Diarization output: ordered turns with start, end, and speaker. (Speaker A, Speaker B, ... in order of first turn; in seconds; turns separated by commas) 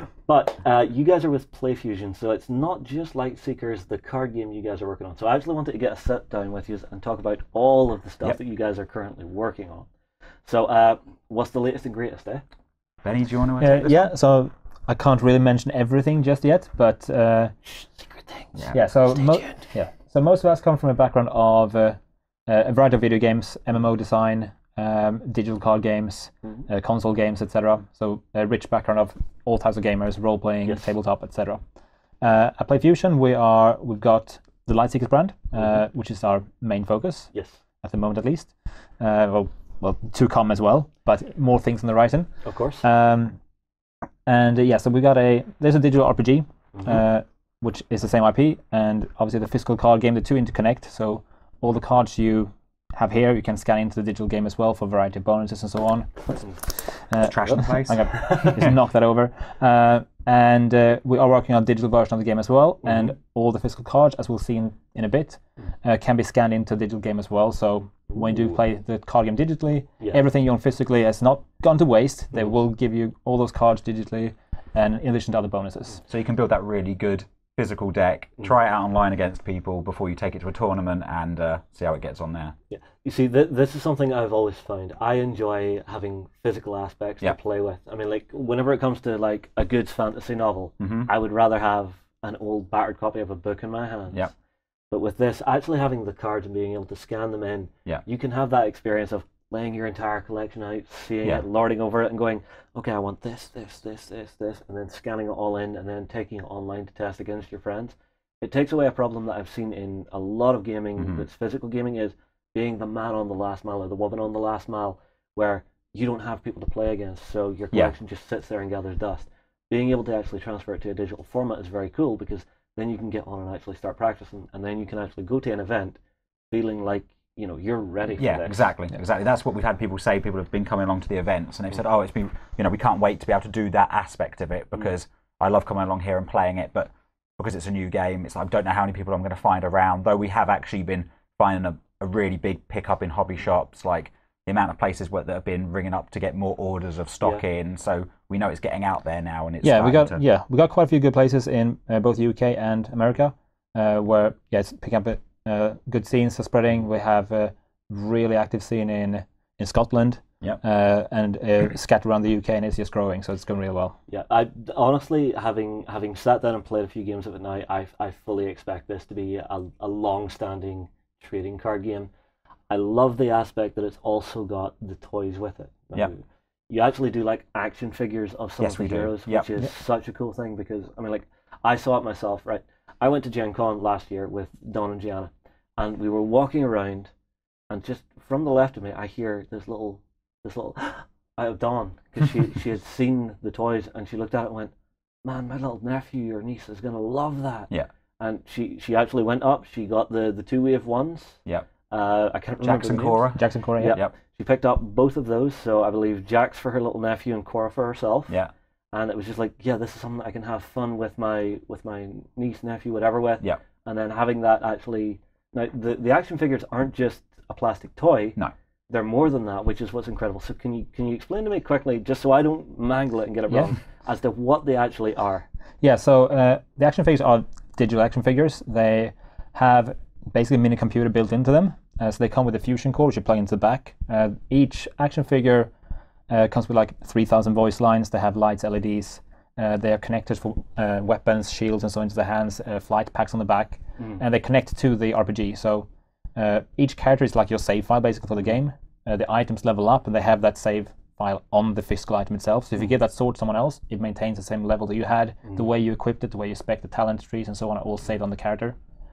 Speaker A: 0.3-9.9, Speaker A: 10.4-12.4, Speaker B: 13.0-14.0, Speaker C: 13.6-17.5, Speaker A: 17.7-18.5, Speaker B: 18.5-18.8, Speaker C: 18.7-31.6, Speaker A: 19.1-19.6, Speaker C: 32.2-37.3, Speaker A: 37.3-37.6, Speaker C: 37.8-42.3, Speaker A: 42.5-42.8, Speaker C: 42.8-43.4, Speaker C: 44.3-76.0, Speaker B: 57.2-58.7, Speaker A: 58.1-58.5, Speaker B: 76.1-82.5, Speaker A: 82.7-94.3, Speaker B: 90.8-91.1, Speaker A: 94.9-126.0, Speaker B: 111.0-111.2, Speaker A: 126.5-128.6, Speaker B: 128.2-150.2, Speaker C: 149.6-164.0, Speaker A: 164.1-172.1, Speaker A: 172.7-187.1, Speaker B: 178.6-179.5, Speaker A: 187.7-194.7, Speaker A: 195.2-197.7, Speaker A: 198.2-203.2, Speaker B: 202.6-204.1, Speaker C: 203.3-204.0, Speaker A: 203.8-208.3, Speaker A: 208.9-218.4, Speaker A: 218.9-225.4, Speaker C: 225.8-235.7, Speaker C: 236.3-258.8